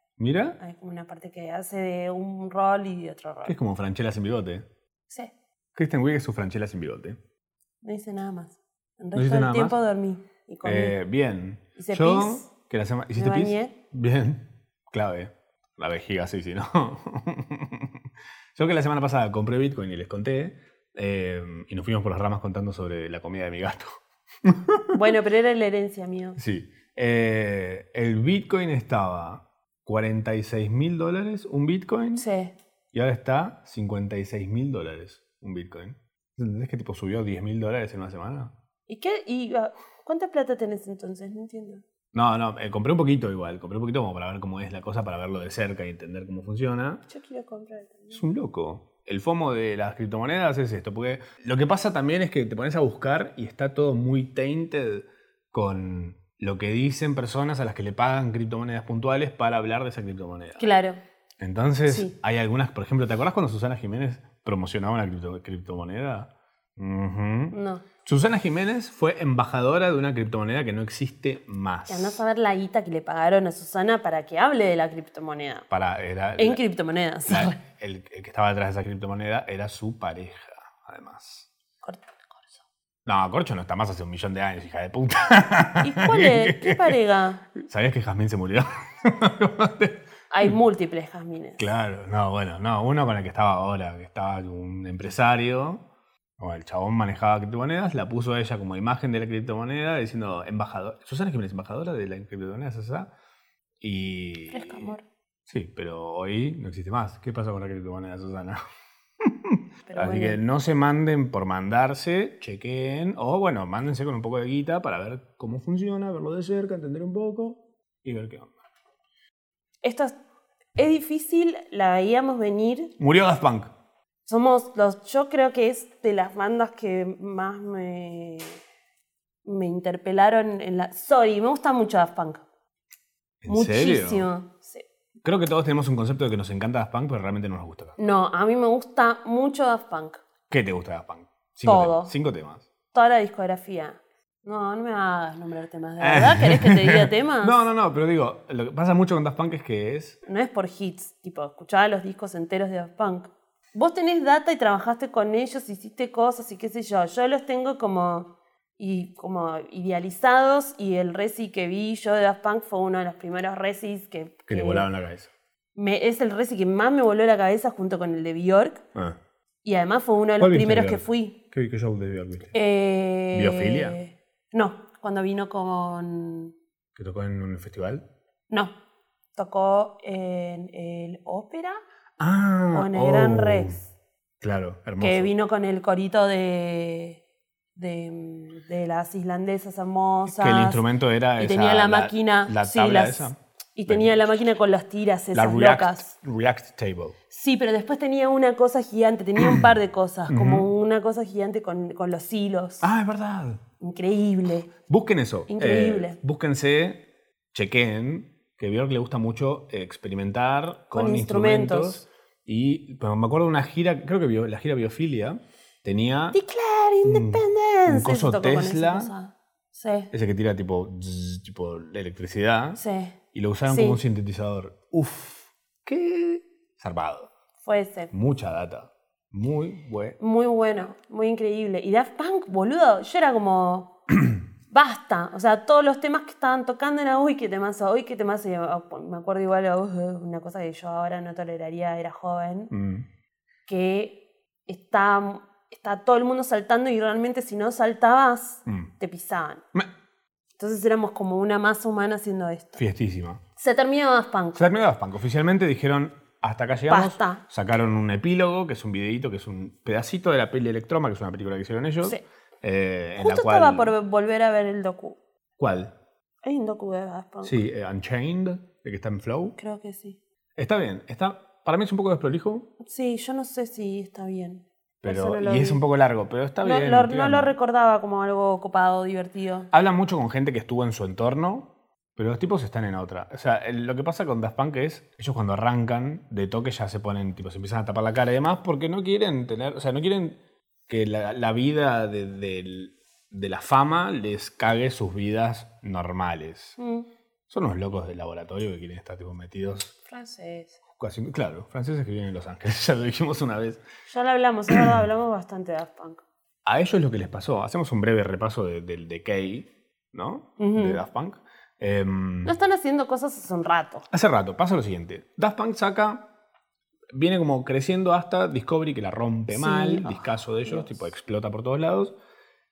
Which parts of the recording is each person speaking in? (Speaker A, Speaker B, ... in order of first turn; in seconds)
Speaker A: 0.2-0.6, 3.5-4.7, 5.8-7.2, 9.2-9.8, 10.6-18.0, 18.6-25.0, 26.4-32.2, 32.9-38.5, 42.1-47.0, 48.1-60.6, 61.4-72.2, 75.7-76.6, 77.3-81.5, 83.1-87.0, 87.6-90.6, 91.6-95.8, 96.4-103.1, 103.8-104.9, 105.5-108.6, 109.2-118.5, 123.0-123.7, 133.4-134.3, 135.2-138.0, 140.5-142.7, 146.0-150.2, 164.5-165.3, 170.4-172.5, 173.3-174.0, 176.9-178.0, 182.2-183.8, 184.4-185.3, 190.3-194.2, 195.3-197.2, 199.4-199.7, 200.3-200.7, 202.8-203.6, 204.9-216.4, 217.1-219.1, 220.1-222.8, 223.3-227.3, 228.1-230.2, 242.7-243.1, 252.8-253.4, 254.6-263.9, 265.6-265.9, 267.4-269.6, 270.6-272.7, 275.0-277.5, 279.7-290.4, 290.9-296.8, 297.5-299.9, 301.0-303.8, 306.7-312.6, 314.1-316.2, 317.1-322.1
Speaker B: 0.6-3.6, 7.8-11.0, 11.8-12.5, 13.2-13.7, 24.9-26.4, 32.2-32.5, 38.9-41.8, 47.1-48.2, 60.6-61.0, 61.9-62.1, 67.5-67.8, 71.9-75.7, 76.4-77.6, 81.8-82.6, 85.8-87.5, 90.3-91.6, 104.5-105.0, 109.9-110.4, 119.8-120.2, 120.8-122.9, 124.3-128.6, 129.4-132.4, 133.5-134.8, 138.0-140.2, 141.7-142.1, 142.9-147.6, 150.2-164.9, 165.8-168.8, 169.7-171.4, 172.5-176.5, 179.4-181.8, 182.7-183.9, 185.0-187.2, 187.8-190.8, 191.4-196.1, 197.3-202.9, 203.8-204.7, 205.5-206.2, 210.9-212.0, 216.3-220.1, 222.8-223.1, 223.7-224.0, 227.6-228.1, 230.2-233.9, 234.7-242.7, 243.7-249.6, 250.6-252.8, 253.6-254.6, 256.9-257.4, 263.2-265.2, 266.4-267.6, 269.6-270.2, 272.8-275.8, 276.6-279.7, 296.8-297.1, 300.1-300.8, 304.1-306.2, 310.6-311.0, 312.4-314.1, 319.5-320.9